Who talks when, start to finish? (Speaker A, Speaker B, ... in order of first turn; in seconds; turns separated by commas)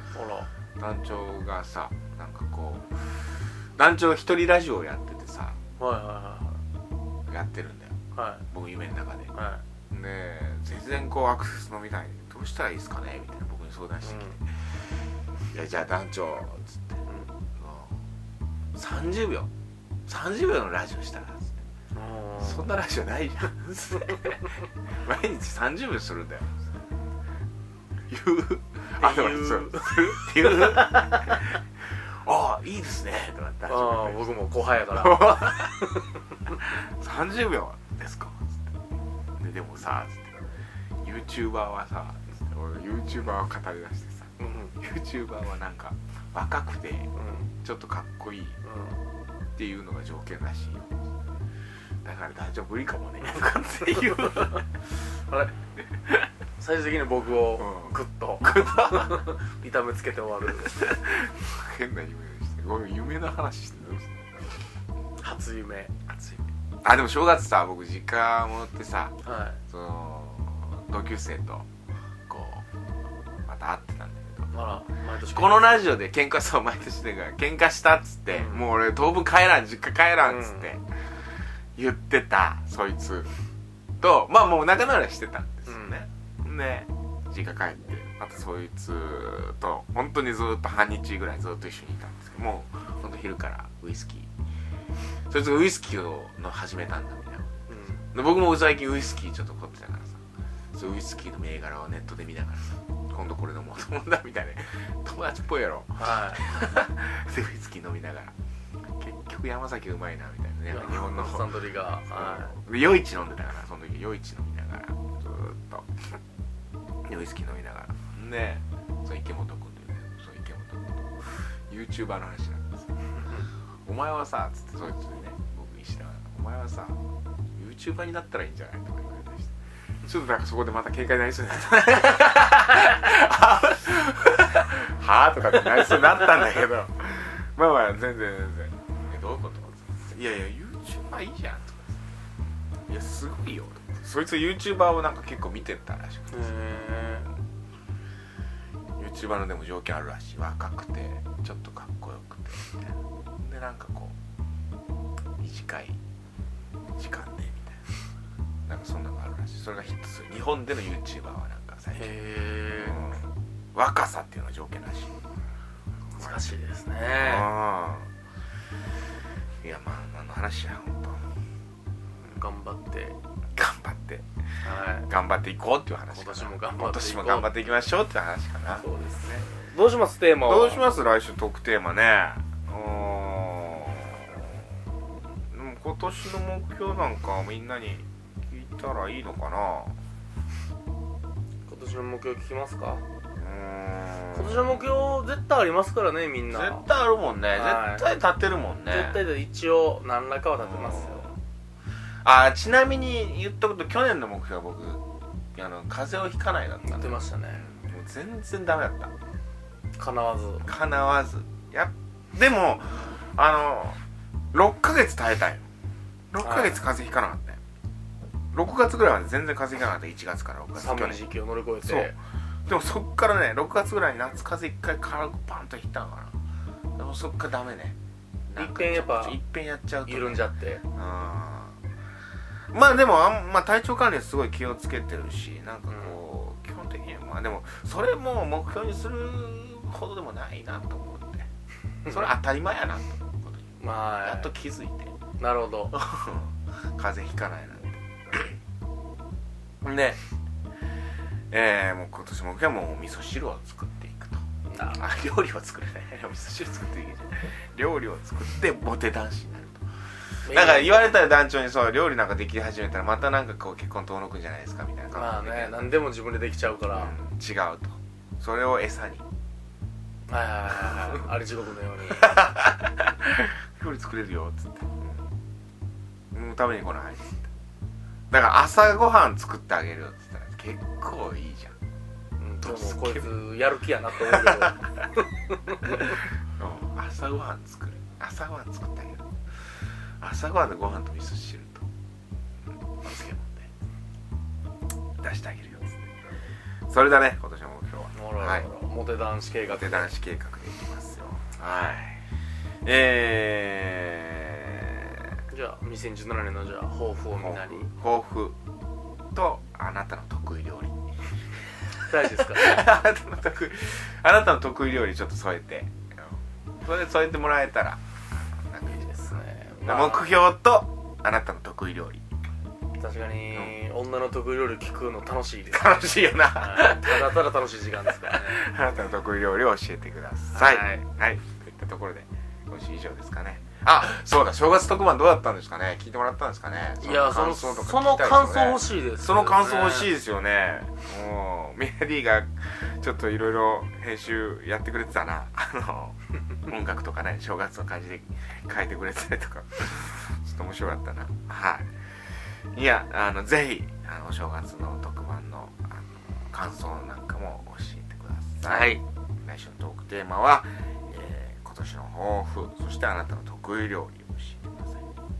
Speaker A: 0.1-0.5, Speaker B: 0.8-5.6, Speaker A: 5.8-6.6, Speaker B: 7.3-8.0, Speaker A: 8.1-8.4, Speaker B: 8.5-9.3, Speaker A: 9.3-9.6, Speaker B: 9.9-14.9, Speaker A: 14.0-14.4, Speaker B: 15.5-17.0, Speaker B: 17.6-18.0, Speaker B: 18.8-19.5, Speaker B: 20.1-21.5, Speaker A: 21.9-22.7, Speaker B: 22.4-26.7, Speaker B: 28.1-34.3, Speaker A: 29.0-31.4, Speaker A: 33.7-36.1, Speaker B: 34.9-35.8, Speaker B: 36.6-38.7, Speaker B: 39.4-40.4, Speaker B: 41.0-47.1, Speaker A: 44.4-44.7, Speaker A: 47.1-47.5, Speaker B: 47.6-48.6, Speaker A: 48.6-49.0, Speaker B: 49.5-51.0, Speaker B: 52.0-54.7, Speaker A: 54.0-54.6, Speaker A: 56.6-60.9, Speaker B: 57.6-59.3, Speaker B: 60.6-64.5, Speaker A: 65.2-65.9, Speaker B: 66.1-69.1, Speaker A: 69.2-69.6, Speaker B: 69.7-71.7, Speaker B: 72.3-72.6, Speaker B: 73.4-74.5, Speaker A: 74.5-75.7, Speaker B: 75.3-80.8, Speaker A: 78.3-78.6, Speaker A: 80.2-80.7, Speaker B: 81.8-83.3, Speaker B: 84.0-94.3, Speaker A: 85.7-86.0, Speaker B: 95.3-97.5, Speaker A: 97.7-98.0, Speaker B: 98.1-100.2, Speaker B: 100.7-108.3, Speaker A: 106.0-106.4, Speaker B: 109.0-111.5, Speaker A: 110.7-112.5, Speaker B: 112.1-115.9, Speaker B: 117.1-123.0, Speaker B: 123.8-127.0, Speaker B: 127.5-129.5, Speaker B: 130.0-142.0, Speaker B: 142.9-146.5, Speaker A: 146.3-147.3, Speaker B: 149.0-154.1, Speaker B: 155.4-156.0, Speaker B: 157.0-157.9, Speaker B: 158.7-162.1, Speaker A: 161.9-163.1, Speaker B: 162.8-165.2, Speaker A: 166.1-167.5, Speaker B: 167.1-168.1, Speaker B: 169.6-171.2, Speaker A: 172.2-173.2, Speaker B: 173.6-174.2, Speaker A: 174.6-175.1, Speaker B: 175.1-178.8, Speaker A: 176.1-177.6, Speaker A: 178.8-180.8, Speaker B: 180.4-184.6, Speaker B: 185.5-189.9, Speaker A: 191.7-193.0, Speaker B: 193.4-194.8, Speaker A: 194.3-196.8, Speaker B: 196.5-199.2, Speaker A: 197.5-198.0, Speaker A: 198.9-201.3, Speaker B: 200.6-201.3, Speaker B: 202.2-205.0, Speaker B: 205.5-209.1, Speaker A: 206.8-207.6, Speaker A: 210.0-210.7, Speaker B: 210.6-214.0, Speaker B: 214.5-215.6, Speaker B: 216.3-217.6, Speaker A: 216.4-216.8, Speaker B: 218.5-221.2, Speaker A: 220.8-222.1, Speaker B: 221.8-222.2, Speaker B: 222.7-226.3, Speaker B: 227.0-228.0, Speaker B: 228.5-231.7, Speaker A: 228.6-229.4, Speaker A: 230.1-230.8, Speaker B: 232.7-241.5, Speaker A: 235.9-236.2, Speaker A: 242.0-242.3, Speaker B: 242.1-245.2, Speaker A: 243.8-244.5, Speaker A: 245.4-245.9, Speaker B: 245.9-248.5, Speaker B: 249.8-250.2, Speaker B: 251.5-259.8, Speaker A: 254.7-255.0, Speaker A: 260.4-261.1, Speaker B: 260.5-265.9, Speaker A: 265.1-267.1, Speaker B: 266.9-269.2, Speaker A: 270.3-272.5, Speaker B: 272.1-275.2, Speaker B: 276.3-277.5, Speaker B: 278.3-281.7, Speaker A: 282.4-286.1, Speaker B: 282.6-283.3, Speaker B: 284.3-284.8, Speaker B: 285.9-289.2, Speaker B: 290.2-291.9, Speaker B: 293.0-293.7, Speaker B: 295.2-296.1, Speaker B: 296.9-298.7, Speaker A: 298.1-300.1, Speaker B: 299.6-302.2, Speaker B: 302.8-305.2, Speaker A: 305.5-307.9, Speaker B: 307.3-308.6, Speaker B: 309.3-311.0, Speaker B: 312.0-319.3, Speaker A: 312.1-312.8, Speaker A: 318.8-320.4, Speaker B: 319.8-322.2, Speaker A: 323.0-326.0, Speaker B: 325.7-327.4, Speaker A: 326.6-328.6, Speaker B: 328.2-351.9, Speaker A: 330.5-331.0, Speaker A: 337.0-340.1, Speaker B: 352.7-365.0, Speaker A: 358.6-359.0